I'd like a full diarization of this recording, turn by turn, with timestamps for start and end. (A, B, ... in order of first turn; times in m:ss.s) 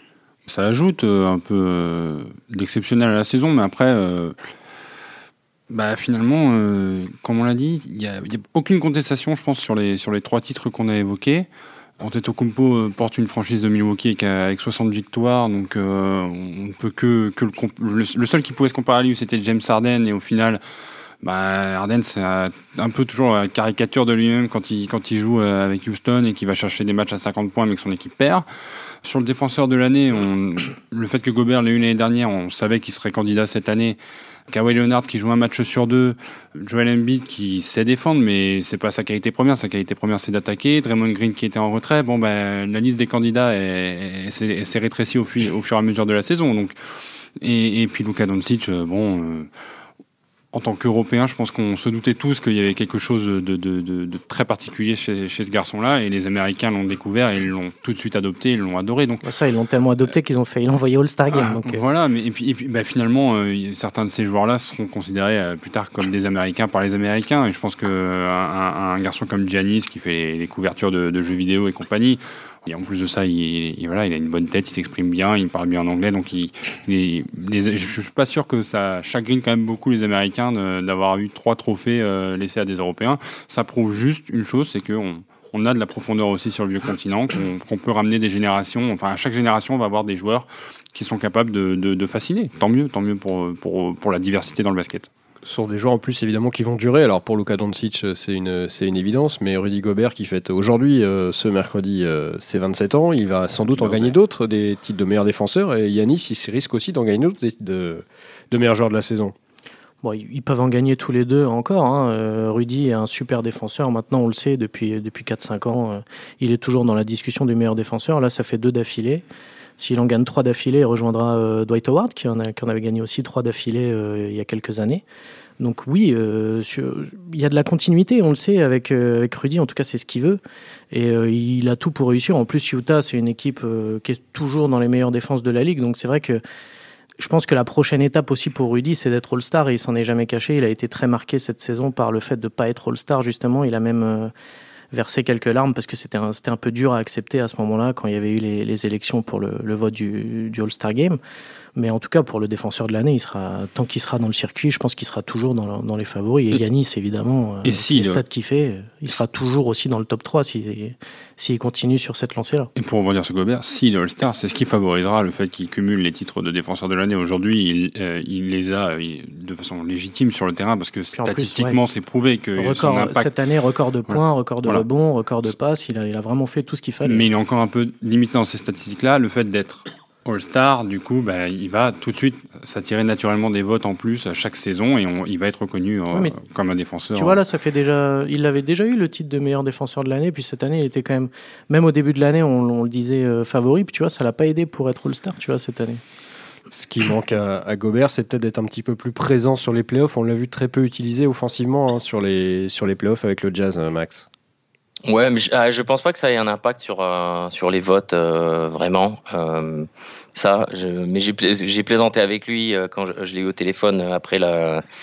0:00.5-0:04.4 A
0:05.7-0:11.5 A
0:12.0-0:20.6 A
0:21.2-0:28.5 A
0:29.0-0:34.0 A
0:34.5-0:46.8 A
0:47.4-0:49.5 A
0:50.5-0:59.2 A
0:59.2-1:01.8 B
1:01.3-1:35.1 A
1:35.4-1:49.3 C
1:43.7-1:44.1 A
1:50.0-1:59.2 B
1:59.8-2:05.0 B
2:05.6-2:10.4 B
2:10.9-2:16.4 B
2:17.2-2:24.3 B
2:24.9-2:31.2 B
2:31.8-2:42.7 B
2:37.6-2:38.2 A
2:42.8-2:53.3 A
2:51.1-2:51.8 B
2:52.6-2:57.3 B
2:54.1-2:54.8 A
2:57.0-3:07.4 A
3:07.2-3:16.0 B
3:16.7-3:24.3 C
3:25.0-3:34.8 D